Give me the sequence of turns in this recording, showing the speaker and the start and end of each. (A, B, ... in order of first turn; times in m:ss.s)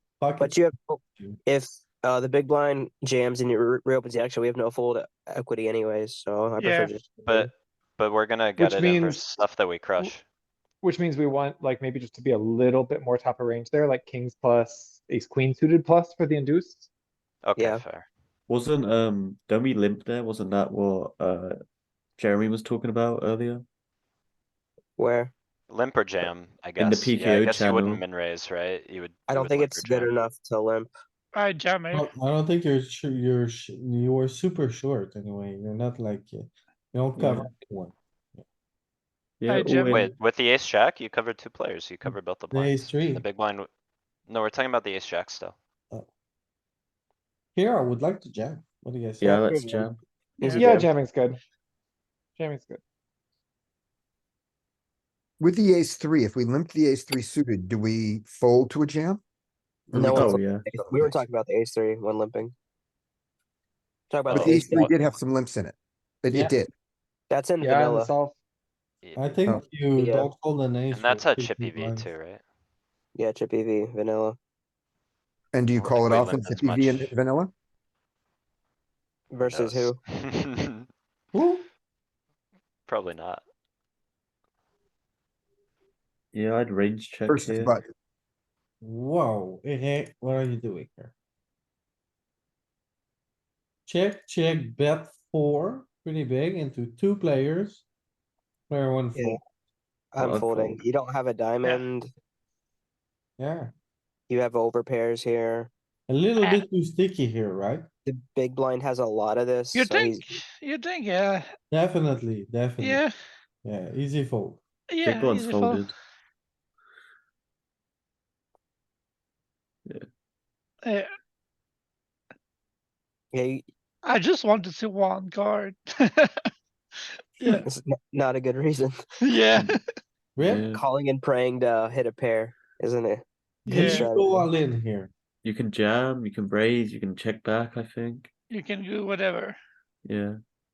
0:00.2-0:01.4 A
0:00.4-0:07.5 B
0:06.6-0:06.9 C
0:07.2-0:10.2 D
0:08.6-0:09.4 E
0:10.8-0:16.9 E
0:17.4-0:18.0 D
0:17.6-0:17.8 B
0:18.5-0:21.6 F
0:22.2-0:23.6 F
0:25.0-0:25.3 B
0:25.7-0:30.1 D
0:26.2-0:28.0 F
0:29.3-0:30.9 B
0:31.3-0:32.1 C
0:31.9-0:38.4 A
0:37.2-0:37.5 F
0:39.4-0:40.1 F
0:39.5-0:40.1 C
0:39.9-0:43.7 D
0:42.0-0:43.3 A
0:44.3-0:45.5 D
0:47.5-0:50.0 A
0:49.2-0:50.0 F
0:50.4-0:51.4 E
0:50.4-0:50.8 C
0:50.4-0:50.9 B
0:52.4-0:52.8 E
0:55.4-0:59.2 G
0:59.9-1:00.2 G
0:59.9-1:01.1 F
1:00.0-1:02.5 B
1:04.1-1:04.9 B
1:04.3-1:06.7 G
1:04.3-1:04.9 D
1:07.3-1:08.1 B
1:07.6-1:08.4 E
1:09.0-1:09.4 D
1:09.2-1:12.1 A
1:09.9-1:10.3 B
1:10.9-1:12.4 D
1:13.1-1:14.4 B
1:15.5-1:17.5 G
1:15.7-1:17.1 D
1:19.3-1:20.0 B
1:19.4-1:20.9 D
1:21.3-1:21.6 A
1:22.9-1:23.4 D
1:26.3-1:27.8 F
1:27.3-1:27.9 G
1:28.8-1:31.1 A
1:33.9-1:37.8 A
1:38.7-1:39.4 A
1:39.1-1:39.4 B
1:40.1-1:42.1 B
1:40.2-1:40.8 F
1:43.4-1:43.7 A
1:44.3-1:45.7 B
1:46.1-1:47.8 A
1:46.4-1:46.6 C
1:48.0-1:50.3 B
1:49.7-1:51.5 C
1:51.7-1:53.0 A
1:52.8-1:53.1 C
1:53.6-1:54.6 A
1:54.9-1:55.9 C
1:55.0-1:55.9 F
2:00.8-2:01.1 C
2:03.3-2:03.6 B
2:04.0-2:06.5 C
2:07.4-2:07.6 C
2:07.6-2:09.0 B
2:09.2-2:09.8 C
2:10.4-2:10.7 A
2:10.4-2:10.8 F
2:10.7-2:13.2 B
2:13.6-2:15.1 A
2:13.7-2:14.1 C
2:13.7-2:14.5 B
2:15.4-2:18.3 F
2:18.5-2:19.6 C
2:20.0-2:20.4 F